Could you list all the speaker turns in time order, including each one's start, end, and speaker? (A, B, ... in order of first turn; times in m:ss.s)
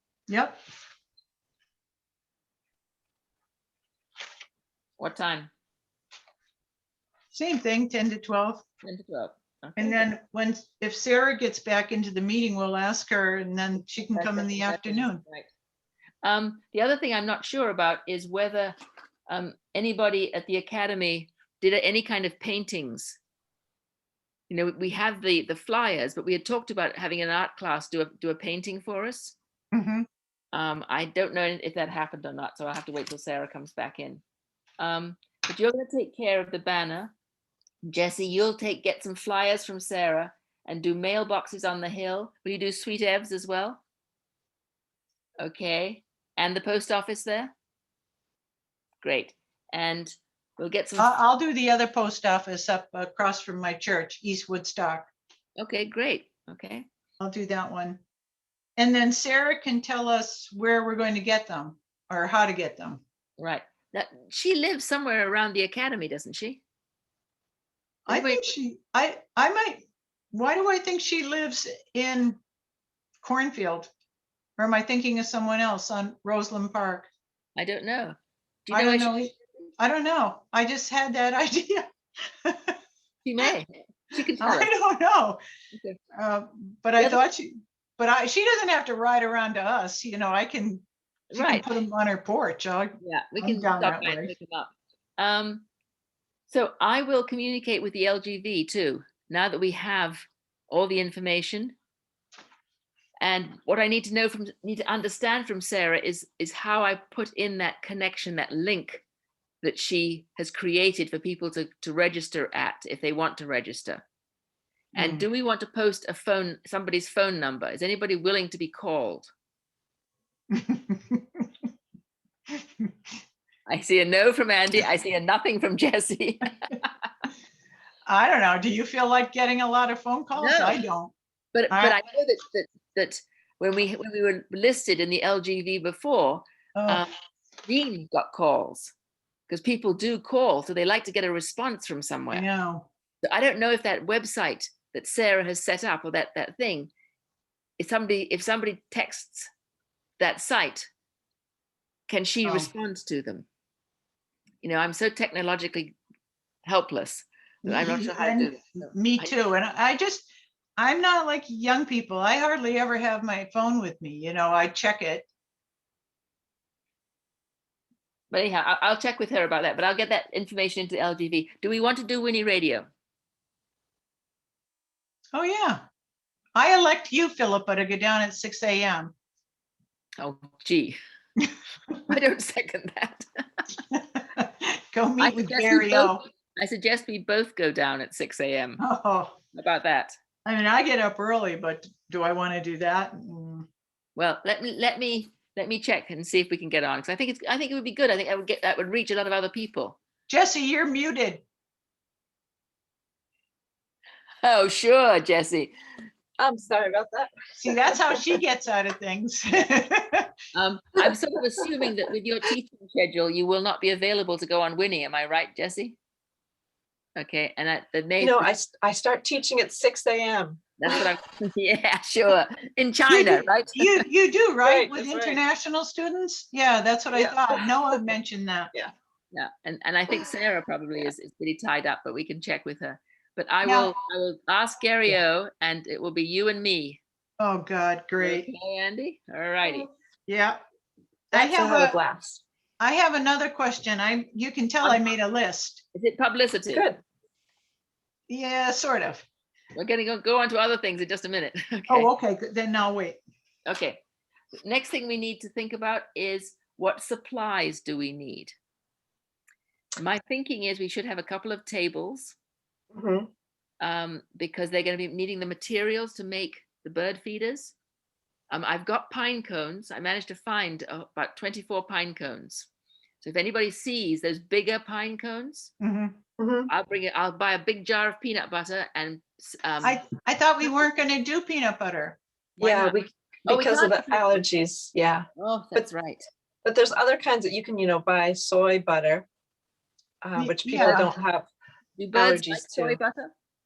0:00.3-0:00.6 A
0:05.0-0:05.5 B
0:07.3-0:08.6 A
0:08.8-0:10.1 B
0:09.8-0:15.2 A
0:13.8-0:15.5 B
0:16.2-0:18.8 B
0:19.3-0:23.2 B
0:24.5-0:29.4 B
0:29.7-0:30.1 A
0:30.5-0:34.2 B
0:34.8-0:37.1 B
0:37.8-0:43.8 B
0:45.4-0:47.5 B
0:49.0-0:51.1 B
0:51.0-0:55.1 A
0:55.6-0:56.9 B
0:57.2-0:58.0 A
0:58.8-1:03.0 A
1:03.4-1:06.6 B
1:08.1-1:12.4 A
1:08.1-1:08.6 B
1:13.2-1:13.9 A
1:14.6-1:17.1 A
1:17.6-1:19.2 B
1:18.7-1:21.9 A
1:22.4-1:22.8 A
1:23.2-1:24.7 B
1:24.4-1:25.4 A
1:26.2-1:34.3 A
1:31.3-1:31.7 B
1:33.0-1:35.7 B
1:36.5-1:41.8 B
1:43.2-1:49.0 B
1:49.6-1:54.0 B
1:55.0-1:55.2 A
1:55.0-1:59.3 B
2:00.5-2:01.4 A
2:03.7-2:07.1 B
2:08.1-2:11.1 A
2:10.4-2:10.8 B
2:11.5-2:17.1 B
2:11.7-2:12.0 A
2:16.8-2:17.0 A
2:17.7-2:18.9 B
2:19.5-2:22.5 B
2:22.3-2:22.9 A
2:23.2-2:26.9 B
2:27.8-2:29.5 B
2:30.2-2:30.9 B
2:32.1-2:33.5 B
2:32.4-2:32.7 A
2:34.6-2:36.0 B
2:36.6-2:39.4 B
2:37.6-2:45.3 A
2:48.3-2:52.9 B
2:55.3-2:55.8 A
2:56.6-2:59.1 A
3:00.2-3:01.0 B
3:02.1-3:03.6 B
3:03.9-3:06.2 A
3:05.2-3:08.8 B
3:08.8-3:09.4 A
3:09.5-3:10.2 B
3:10.4-3:13.7 A
3:14.2-3:20.0 B
3:20.3-3:21.4 A
3:24.4-3:25.7 B
3:26.4-3:28.4 C
3:27.6-3:30.3 A
3:30.5-3:36.0 B
3:37.2-3:38.6 B
3:38.2-3:40.6 C
3:40.8-3:44.0 B
3:43.1-3:48.7 A
3:44.6-3:45.4 C
3:47.1-3:48.1 C
3:49.3-3:57.0 B
3:53.6-3:53.9 A
3:57.4-3:58.5 A
3:58.2-3:59.9 B
4:00.3-4:00.6 A
4:01.3-4:02.0 A
4:01.3-4:02.4 C
4:02.8-4:05.8 A
4:05.9-4:06.9 B
4:06.7-4:07.0 C
4:08.3-4:09.2 A
4:09.7-4:12.1 B
4:11.9-4:13.2 A
4:13.7-4:14.0 B
4:14.6-4:18.5 B
4:20.0-4:22.4 B
4:22.9-4:23.3 C
4:23.8-4:27.8 B
4:28.5-4:32.7 B
4:33.2-4:35.7 B
4:35.8-4:36.2 A
4:36.4-4:36.7 C
4:36.7-4:40.0 B
4:39.8-4:42.2 A
4:42.6-4:43.0 B
4:42.6-4:45.9 C
4:43.5-4:44.4 B
4:45.4-4:46.2 B
4:46.6-4:49.3 C
4:50.2-4:51.5 C
4:50.4-4:51.1 A
4:50.7-4:51.1 B
4:52.0-4:53.3 B
4:52.1-4:53.0 C